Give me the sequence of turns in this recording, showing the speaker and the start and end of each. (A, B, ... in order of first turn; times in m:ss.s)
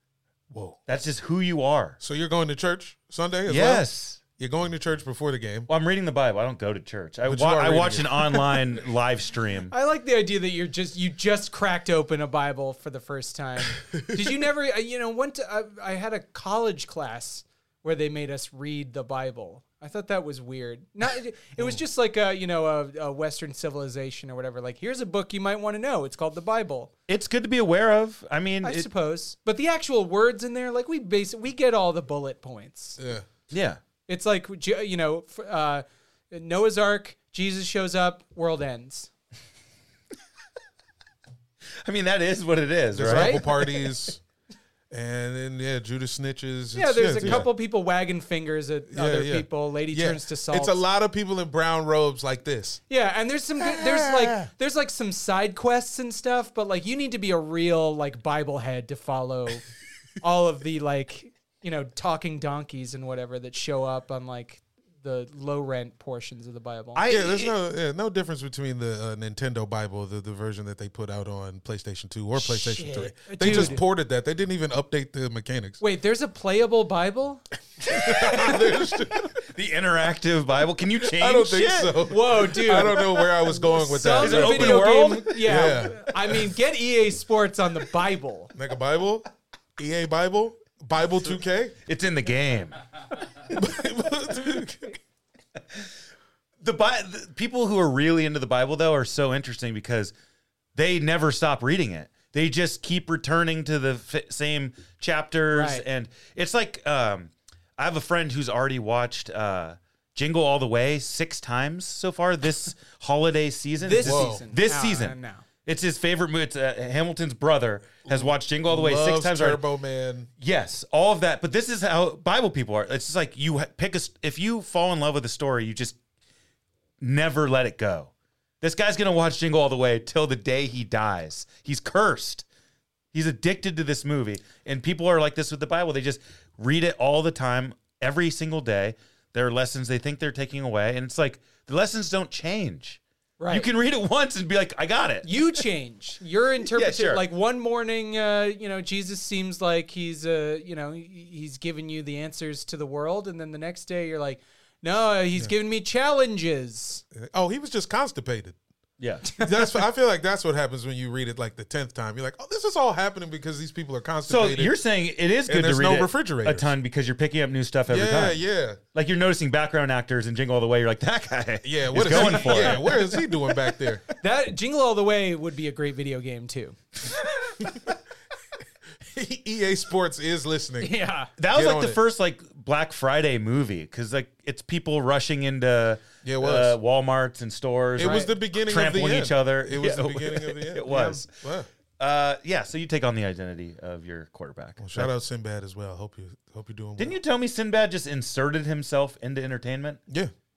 0:00.5-0:00.8 A
0:00.9-0:02.0 B
0:02.0-0:03.8 A
0:03.5-0:04.2 B
0:04.4-0:05.7 A
0:05.7-0:09.7 B
0:07.2-0:08.6 A
0:09.7-0:26.9 C
0:27.1-0:28.9 B
0:28.6-0:33.0 C
0:33.0-0:33.3 A
0:33.5-0:33.8 B
0:34.1-0:39.1 C
0:41.8-0:43.8 B
0:42.9-0:44.2 A
0:43.1-0:43.4 C
0:44.9-0:47.5 A
0:46.7-0:50.8 C
0:48.9-0:52.8 A
0:52.9-0:59.6 C
0:53.6-0:54.5 A
1:00.2-1:07.0 C
1:06.9-1:07.5 B
1:07.1-1:15.8 A
1:12.4-1:13.8 C
1:13.4-1:13.8 B
1:15.8-1:17.4 C
1:17.9-1:19.3 A
1:18.2-1:18.5 C
1:19.4-1:22.0 B
1:21.0-1:26.4 A
1:22.0-1:28.5 C
1:24.1-1:25.7 B
1:28.5-1:31.7 A
1:31.8-1:32.8 B
1:33.4-1:35.0 A
1:36.6-1:40.1 B
1:40.8-1:59.6 B
1:45.5-1:45.8 C
1:53.8-1:55.4 C
1:54.0-1:54.4 A
1:58.1-2:00.3 A
2:00.4-2:06.0 B
2:07.0-2:12.4 B
2:13.1-2:25.4 B
2:23.4-2:23.7 C
2:25.2-2:37.0 C
2:26.7-2:27.2 B
2:37.1-2:38.6 A
2:39.0-2:39.3 B
2:39.3-2:44.8 A
2:44.3-2:48.4 B
2:45.5-2:46.7 A
2:47.9-2:48.8 A
2:48.9-2:53.0 B
2:51.6-2:54.0 A
2:52.1-2:52.7 C
2:54.2-2:56.8 C
2:59.0-3:00.9 A
3:00.8-3:01.3 C
3:01.4-3:11.3 B
3:01.5-3:02.0 A
3:06.2-3:06.8 A
3:08.0-3:11.7 A
3:08.0-3:08.3 C
3:12.0-3:15.1 B
3:14.8-3:17.2 A
3:17.0-3:20.0 B